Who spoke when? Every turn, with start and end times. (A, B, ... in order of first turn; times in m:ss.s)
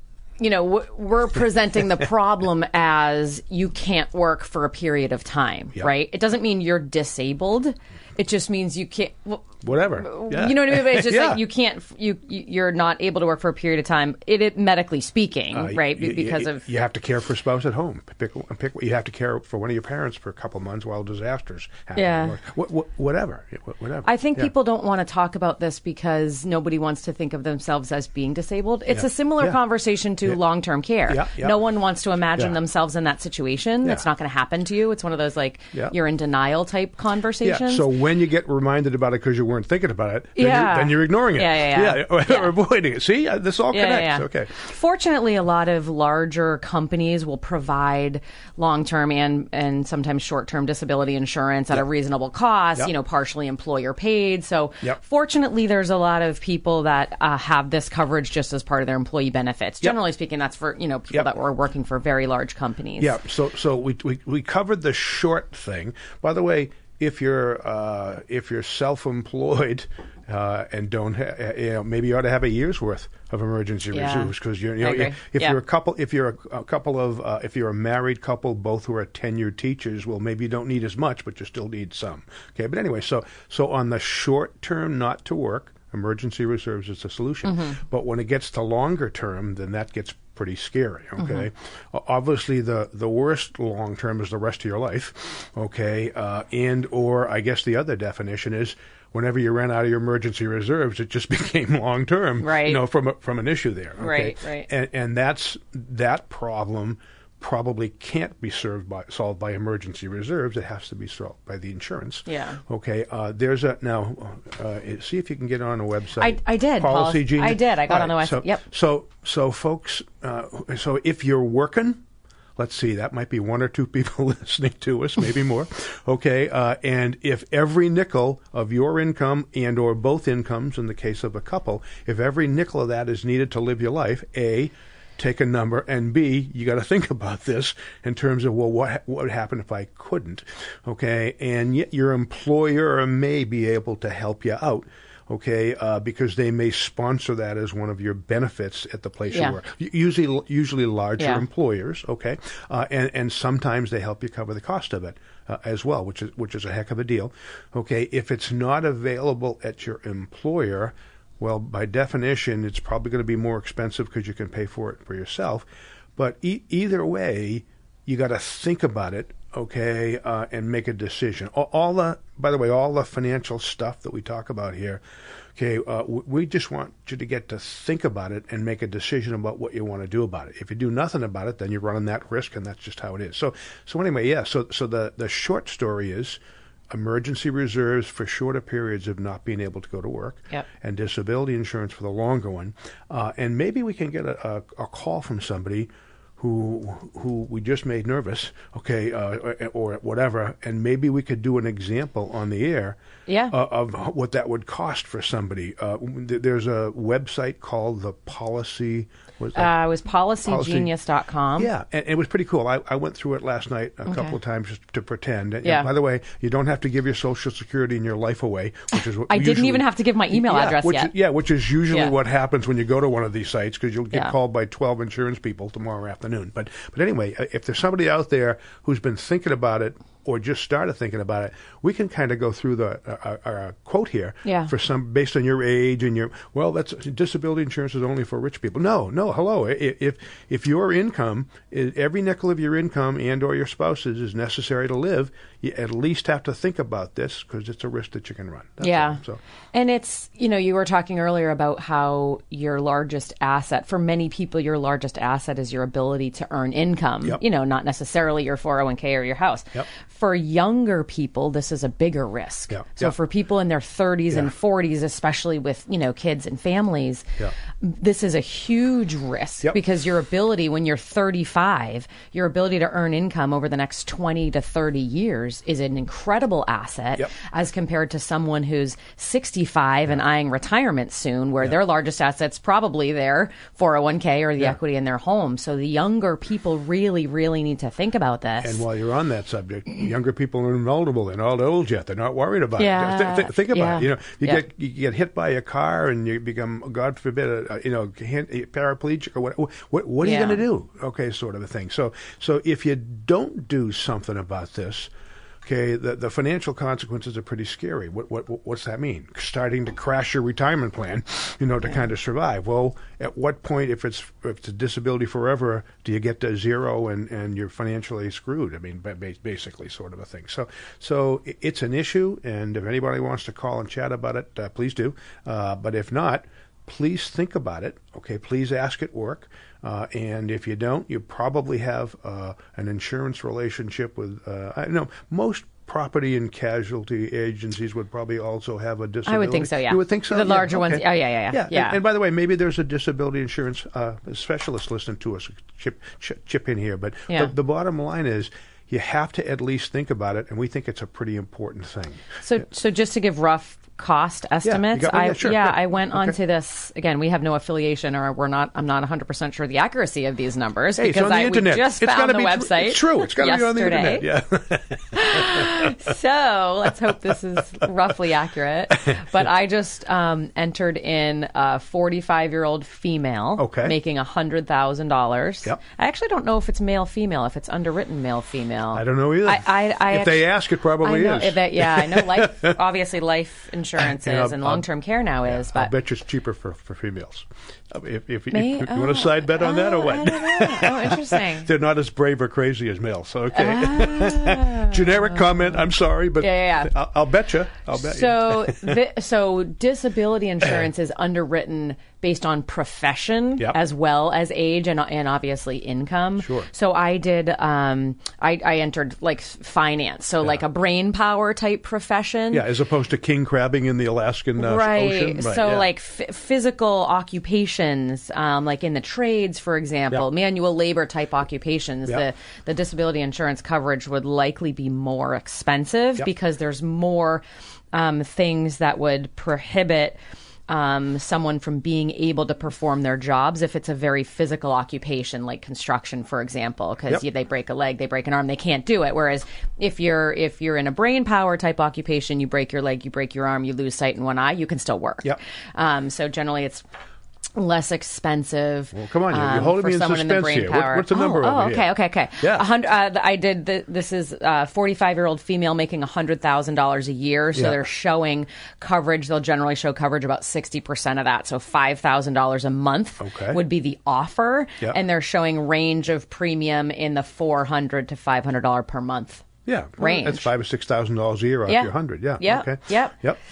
0:00.4-0:16.6 A
0:09.6-0:11.4 B
0:15.5-0:24.5 B
0:22.0-0:22.4 A
0:24.0-0:37.9 A
0:28.9-0:29.6 B
0:31.1-0:31.6 B
0:37.4-0:44.6 B
0:40.4-0:42.5 A
0:43.7-1:03.2 A
1:03.0-2:02.0 B
1:13.9-1:15.6 A
1:27.4-1:27.8 A
1:31.2-1:31.5 A
1:42.4-1:42.8 A
1:44.0-1:44.7 A
1:52.3-1:52.6 A
1:56.2-1:58.6 A
2:02.6-2:55.0 B
2:29.3-2:29.6 A
2:31.2-2:31.4 A
2:55.6-3:06.4 B
3:06.9-3:23.0 B
3:23.3-3:23.5 A
3:23.5-3:29.7 B
3:29.6-3:31.7 A
3:30.4-3:30.9 B
3:31.6-4:09.4 B
3:34.1-3:34.4 A
3:35.6-3:35.9 A
3:39.3-3:41.1 A
3:54.4-3:54.7 A
4:08.8-4:09.2 A
4:09.7-4:27.3 A
4:22.7-4:23.1 B
4:27.8-4:48.8 A
4:48.6-5:05.1 B
4:52.8-4:54.6 A
5:00.2-5:00.6 A
5:05.6-5:52.4 B
5:39.3-5:42.0 A
5:52.4-6:04.3 A
5:54.6-5:56.4 B
6:01.0-6:06.1 B
6:05.1-6:20.5 A
6:07.3-6:07.8 B
6:13.6-6:13.9 B
6:18.9-6:22.8 B
6:21.0-6:25.9 A
6:24.0-6:24.9 B
6:25.4-6:39.0 B
6:28.5-6:31.7 A
6:33.5-6:35.7 A
6:36.4-6:36.9 A
6:37.9-6:52.6 A
6:46.4-6:46.7 B
6:52.5-6:55.9 B
6:54.6-7:10.2 A
7:10.7-7:26.8 A
7:27.6-7:49.5 A
7:28.9-7:32.7 B
7:37.6-7:37.8 B
7:43.2-7:43.6 B
7:49.7-7:53.4 B
7:50.0-7:50.5 A
7:51.7-7:53.2 A